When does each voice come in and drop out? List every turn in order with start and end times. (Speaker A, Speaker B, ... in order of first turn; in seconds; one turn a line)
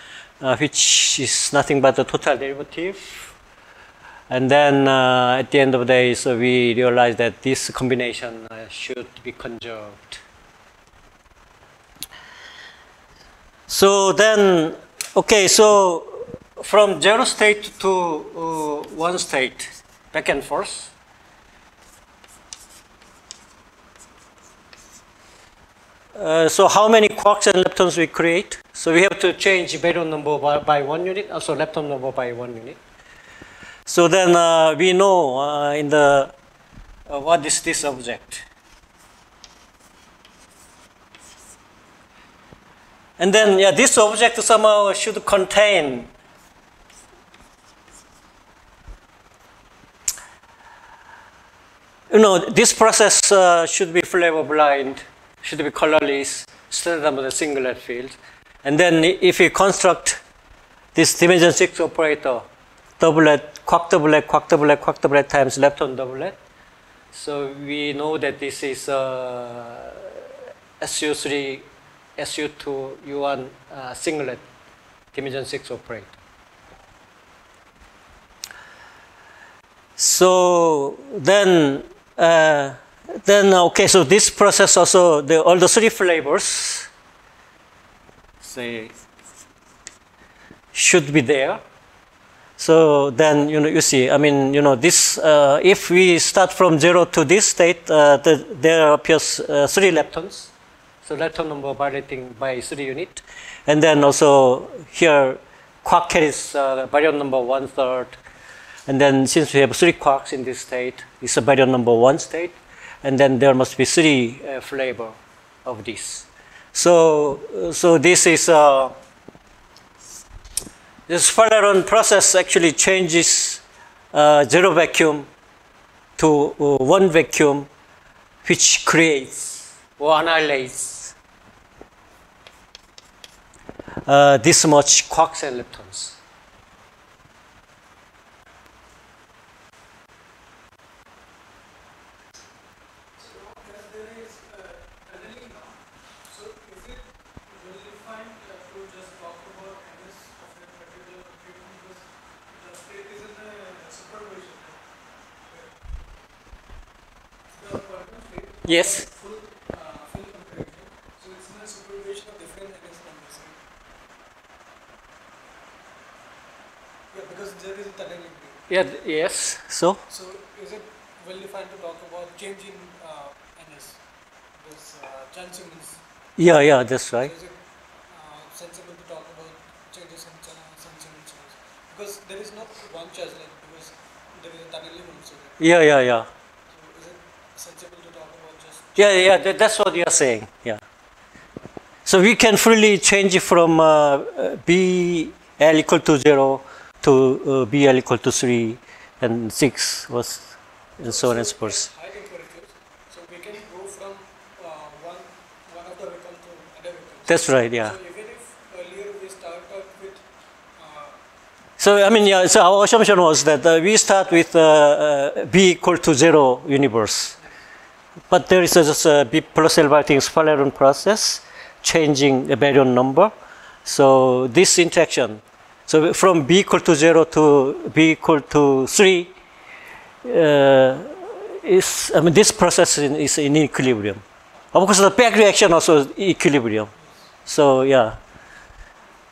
Speaker A: 0.4-3.3
Speaker A: 4.3-10.2
Speaker A: 13.7-20.9
Speaker A: 26.1-32.8
Speaker A: 33.9-36.3
Speaker A: 37.1-38.4
Speaker A: 43.2-46.1
Speaker A: 52.1-60.2
Speaker A: 60.9-62.5
Speaker A: 63.0-66.4
Speaker A: 67.1-71.7
Speaker A: 72.2-74.4
Speaker A: 75.1-76.2
Speaker A: 80.0-86.9
Speaker A: 88.4-88.9
Speaker A: 90.7-91.6
Speaker A: 92.6-100.5
Speaker A: 101.0-108.2
Speaker A: 108.9-118.9
Speaker A: 121.1-125.3
Speaker A: 126.2-127.7
Speaker A: 128.4-131.1
Speaker A: 134.1-136.2
Speaker B: 143.2-154.9
Speaker B: 155.4-155.8
Speaker B: 157.5-163.6
Speaker A: 158.6-159.1
Speaker B: 167.1-168.7
Speaker A: 168.7-170.0
Speaker B: 170.1-174.0
Speaker B: 174.6-176.0
Speaker A: 176.4-177.3
Speaker B: 177.2-185.6
Speaker A: 185.6-186.3
Speaker B: 186.7-188.9
Speaker A: 188.9-190.8
Speaker A: 192.1-201.9
Speaker B: 201.0-210.2
Speaker A: 207.3-207.9
Speaker B: 210.8-211.2
Speaker A: 211.8-217.4
Speaker A: 218.3-223.3
Speaker A: 223.8-229.3
Speaker A: 230.2-234.2
Speaker A: 234.7-236.9
Speaker A: 237.4-238.2